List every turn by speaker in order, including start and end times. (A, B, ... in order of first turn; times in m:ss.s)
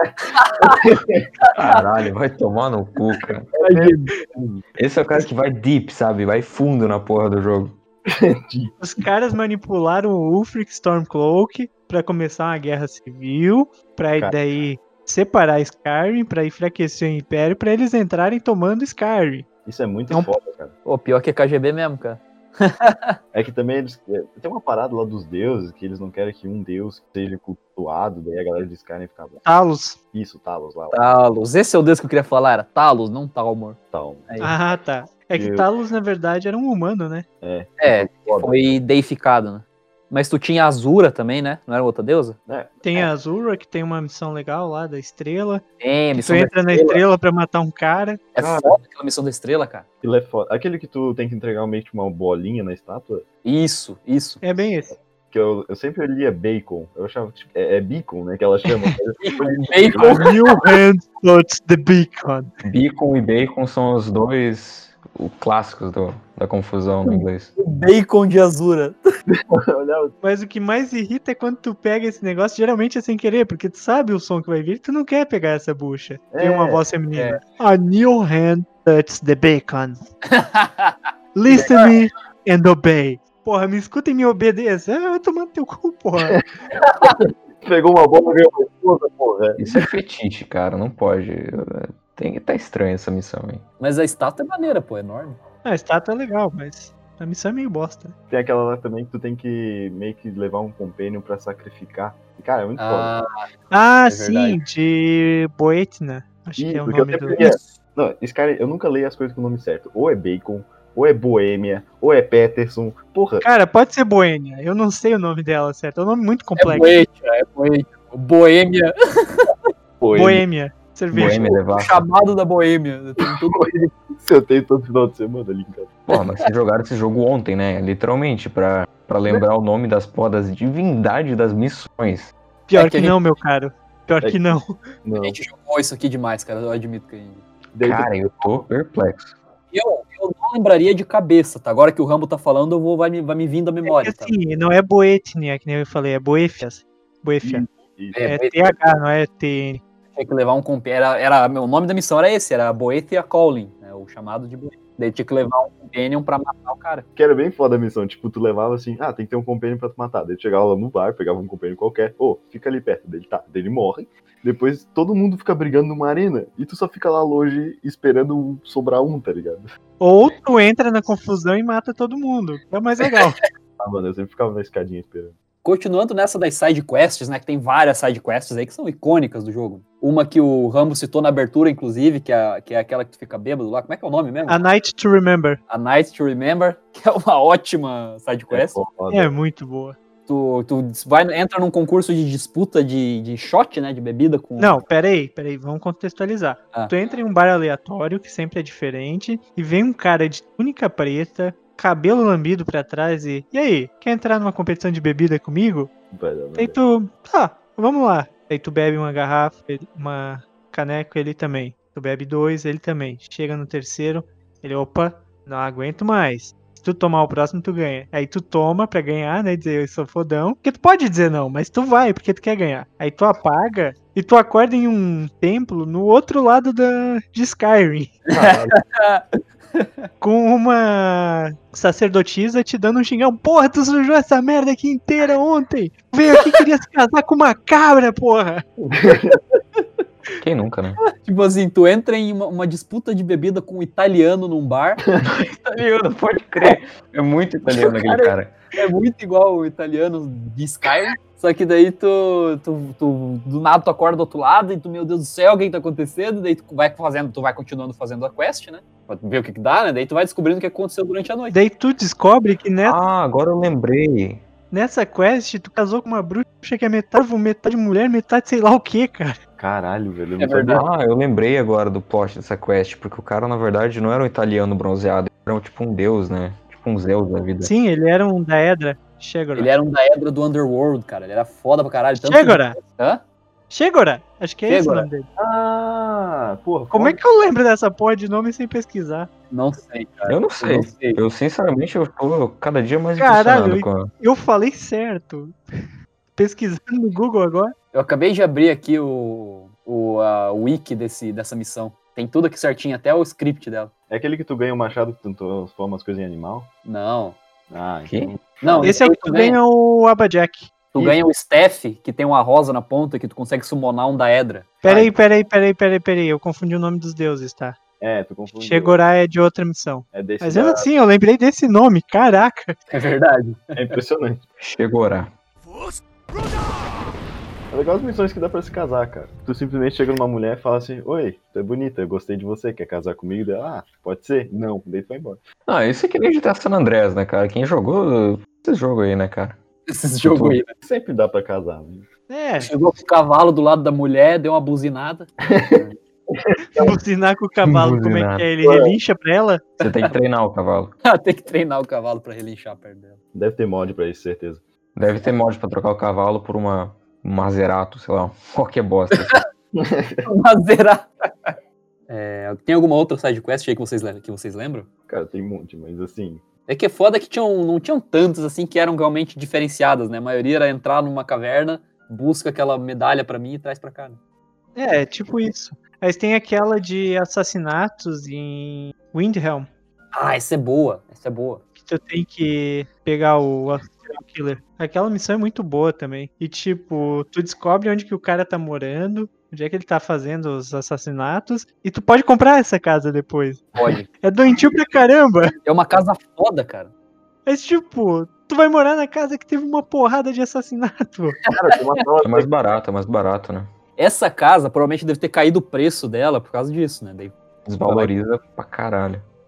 0:00.3-0:01.0 A
0:00.6-0:01.2 B
0:01.5-0:03.5 C
0:03.5-0:04.6 B
0:03.6-0:04.2 A
0:04.8-0:07.8 C
0:08.1-0:08.7 B
0:08.8-0:19.5 D
0:19.6-0:20.7 B
0:20.9-0:23.2 A
0:23.3-0:29.4 B
0:29.4-0:30.0 D
0:30.1-0:31.0 B
0:30.9-0:33.8 A
0:33.9-0:34.5 B
0:34.3-0:34.5 A
0:34.4-0:37.2 D
0:35.4-0:35.7 B
0:37.4-0:38.6 B
0:37.8-0:42.4 A
0:42.5-0:43.1 B
0:42.8-0:48.3 D
0:45.8-0:47.0 A
0:48.4-0:49.8 A
0:48.4-0:48.8 B
0:50.0-0:53.2 B
0:53.4-0:54.4 A
0:54.4-0:55.0 D
0:55.3-1:00.3 B
0:59.2-1:00.6 A
1:00.0-1:02.5 D
1:02.6-1:07.5 C
1:07.1-1:09.0 A
1:09.3-1:10.1 B
1:10.2-1:20.0 D
1:16.3-1:16.8 B
1:17.1-1:17.4 A
1:20.3-1:21.0 A
1:21.4-1:26.4 D
1:21.5-1:21.9 A
1:27.0-1:29.8 B
1:29.6-1:33.6 C
1:33.8-1:35.4 A
1:35.6-1:38.1 D
1:38.3-1:43.1 B
1:42.8-1:43.3 A
1:43.7-1:47.4 D
1:44.1-1:44.6 A
1:46.6-1:53.5 B
1:47.4-1:47.8 A
1:53.4-1:57.0 D
1:56.6-1:59.5 A
2:00.0-2:00.4 B
2:00.1-2:01.5 D
2:01.1-2:02.0 C
2:01.4-2:03.7 A
2:03.5-2:05.9 B
2:06.1-2:12.3 C
2:12.7-2:14.8 D
2:12.7-2:13.2 A
2:15.0-2:15.4 B
2:15.2-2:17.4 A
2:17.7-2:18.1 B
2:17.8-2:19.3 C
2:19.7-2:24.3 A
2:23.8-2:27.7 D
2:27.4-2:28.3 B
2:28.1-2:28.7 A
2:28.2-2:29.8 D
2:30.2-2:37.0 A
2:37.2-2:49.7 B
2:50.0-2:53.4 D
2:53.8-2:55.4 B
2:55.6-3:04.6 A
3:04.5-3:05.6 D
3:05.7-3:08.8 A
3:08.5-3:09.3 B
3:09.1-3:10.0 D
3:10.3-3:14.8 A
3:14.6-3:25.9 D
3:26.1-3:26.8 B
3:26.6-3:48.2 D
3:48.3-3:50.1 A
3:48.3-3:48.8 B
3:50.2-3:58.6 D
3:58.8-3:59.4 B
3:59.3-3:59.8 A
4:00.4-4:01.0 C
4:01.2-4:05.0 A
4:05.2-4:08.5 C
4:07.7-4:21.6 A
4:21.5-4:23.0 D
4:22.8-4:24.4 C
4:24.7-4:29.4 D
4:29.6-4:30.9 B
4:30.4-4:30.8 A
4:30.7-4:37.7 C
4:37.6-4:39.7 D
4:39.6-4:43.2 A
4:42.2-4:42.8 D
4:43.7-4:45.3 D
4:44.7-4:45.1 A
4:45.4-4:47.2 B
4:46.9-4:49.3 D
4:49.5-4:51.2 A
4:50.3-4:54.1 C
4:53.2-4:55.6 D
4:56.4-4:57.7 D
4:57.9-5:03.9 A
5:04.1-5:06.7 B
5:06.8-5:07.4 A
5:07.7-5:08.9 B
5:08.1-5:08.3 C
5:08.6-5:09.6 A
5:08.8-5:10.7 D
5:10.9-5:15.0 A
5:14.8-5:17.8 D
5:18.0-5:19.0 B
5:18.6-5:22.8 D
5:20.1-5:20.9 B
5:22.9-5:24.0 A
5:23.8-5:24.4 B
5:24.6-5:25.3 C
5:27.7-5:35.4 B
5:35.7-5:39.6 C
5:39.9-5:40.7 A
5:40.2-5:40.6 C
5:40.8-5:42.1 B
5:42.3-5:42.7 D
5:42.6-5:46.0 A
5:45.4-5:46.9 B
5:46.8-5:49.7 D
5:47.6-5:48.5 C
5:48.6-5:48.9 B
5:49.8-5:50.9 C
5:51.0-5:53.2 A
5:53.3-5:54.6 B
5:55.0-5:59.4 C
5:59.7-6:00.3 B
6:00.2-6:01.5 A
6:02.1-6:04.9 A
6:05.1-6:06.4 B
6:06.7-6:14.2 A
6:14.8-6:19.7 D
6:20.1-6:21.6 A
6:21.8-6:33.6 D
6:33.8-6:34.1 A
6:34.2-6:35.6 D
6:35.6-6:36.9 A
6:37.5-6:41.4 D
6:41.5-6:42.5 B
6:42.2-6:43.7 C
6:44.0-6:48.1 A
6:47.7-6:49.2 C